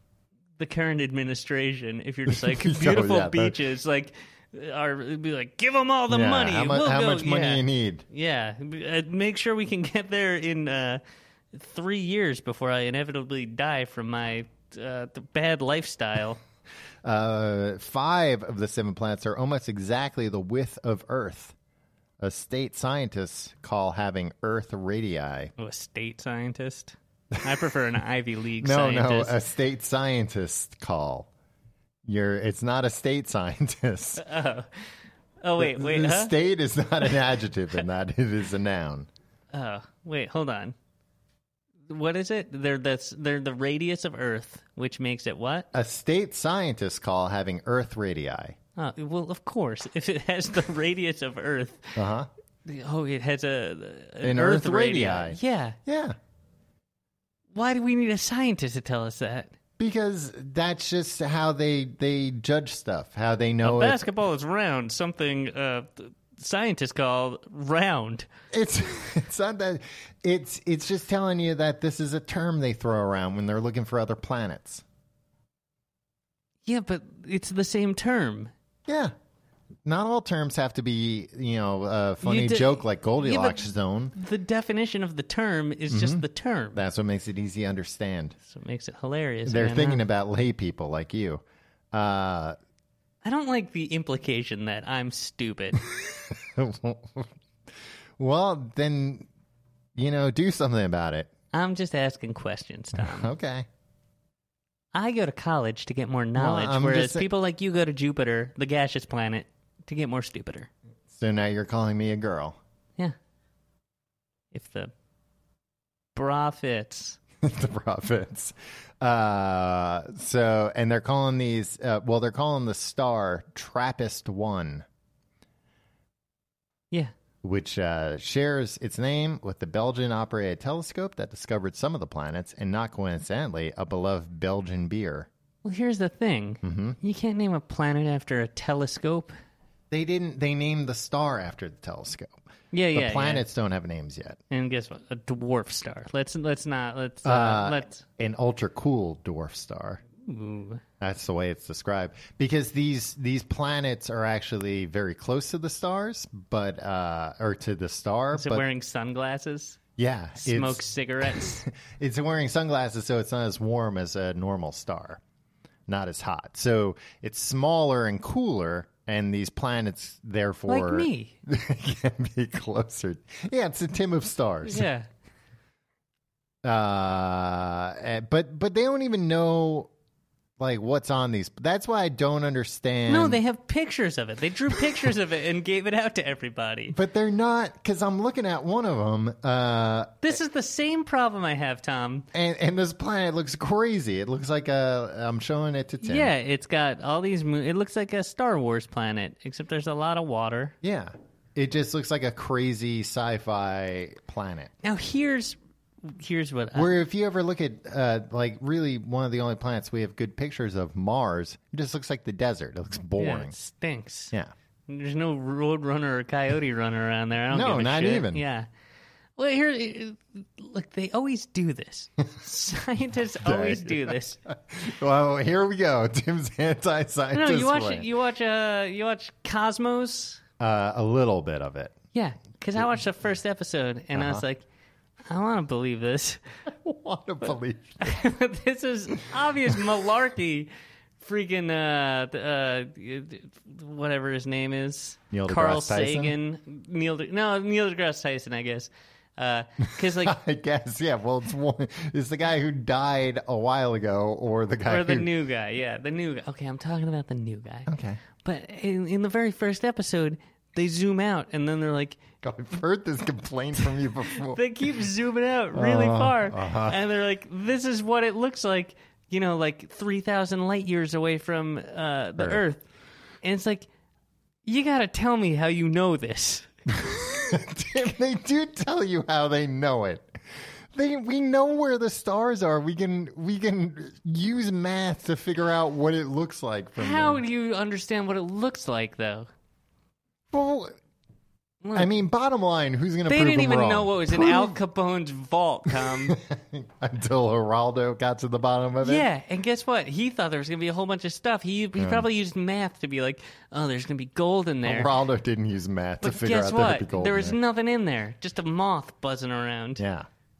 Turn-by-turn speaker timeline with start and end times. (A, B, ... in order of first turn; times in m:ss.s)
0:00.6-0:11.0 A
0:02.3-0:03.6 B
0:06.1-0:08.0 B
0:11.5-0:16.4 A
0:17.0-0:21.6 B
0:22.2-0:25.5 B
0:25.6-0:29.4 A
0:28.6-0:31.3 B
0:32.1-0:34.2 B
0:34.2-0:34.7 A
0:35.4-0:36.3 A
0:35.6-0:39.1 B
0:39.5-0:40.8 A
0:41.9-0:45.7 A
0:45.7-0:48.6 B
0:48.8-0:52.0 A
0:52.0-0:52.3 B
0:52.7-0:55.8 A
0:54.2-0:56.2 B
0:57.6-0:59.5 A
0:59.8-1:04.0 B
1:03.6-1:08.3 A
1:08.5-1:14.8 B
1:16.7-1:18.5 A
1:18.9-1:19.1 B
1:19.8-1:24.2 B
1:22.2-1:23.6 A
1:24.2-1:26.8 A
1:25.9-1:28.4 B
1:28.5-1:30.0 A
1:29.5-1:32.6 B
1:33.2-1:35.8 A
1:35.8-1:37.3 B
1:38.2-1:39.3 B
1:40.0-1:41.3 B
1:41.5-1:43.3 A
1:43.0-1:43.7 B
1:44.9-1:50.7 A
1:46.4-1:47.3 B
1:51.1-1:52.6 B
1:54.5-1:54.9 A
1:56.2-1:57.2 A
1:57.4-2:04.9 B
2:07.4-2:15.3 B
2:15.6-2:19.4 A
2:16.6-2:17.0 B
2:19.9-2:22.4 B
2:22.7-2:23.4 A
2:22.9-2:24.4 B
2:24.5-2:28.0 A
2:27.2-2:30.0 B
2:30.2-2:30.8 A
2:31.0-2:38.6 B
2:38.4-2:39.8 A
2:40.0-2:45.2 B
2:40.4-2:41.6 A
2:45.9-2:54.9 B
2:50.7-2:51.4 A
2:54.6-2:55.1 A
2:56.6-2:59.9 B
3:00.6-3:03.4 B
3:03.1-3:07.0 A
3:04.8-3:05.1 B
3:06.9-3:10.3 B
3:10.2-3:12.3 A
3:12.3-3:16.3 B
3:16.0-3:20.8 A
3:20.8-3:24.7 B
3:24.8-3:26.9 A
3:26.8-3:33.5 B
3:33.2-3:34.3 A
3:34.9-3:38.7 A
3:37.5-3:38.4 B
3:39.4-3:44.4 A
3:43.4-3:48.1 B
3:47.3-3:50.4 A
3:50.6-3:52.0 B
3:52.1-3:54.6 A
3:54.1-3:54.4 B
3:55.3-3:56.4 A
3:56.7-3:58.2 B
3:58.0-4:10.4 A
4:05.3-4:06.4 B
4:10.0-4:15.3 B
4:14.9-4:22.2 A
4:17.9-4:18.2 B
4:22.4-4:24.6 B
4:24.3-4:32.8 A
4:25.8-4:27.0 B
4:33.4-4:33.9 A
4:34.7-4:36.7 A
4:37.0-4:47.4 B
4:47.0-4:49.5 A
4:50.5-4:51.0 B
4:51.8-4:52.2 A
4:52.0-4:54.8 B
4:53.3-4:56.4 A
4:55.9-4:59.3 B
4:59.0-5:05.1 A
5:02.0-5:02.3 B
5:04.8-5:07.6 B
5:06.2-5:10.0 A
5:10.0-5:10.3 B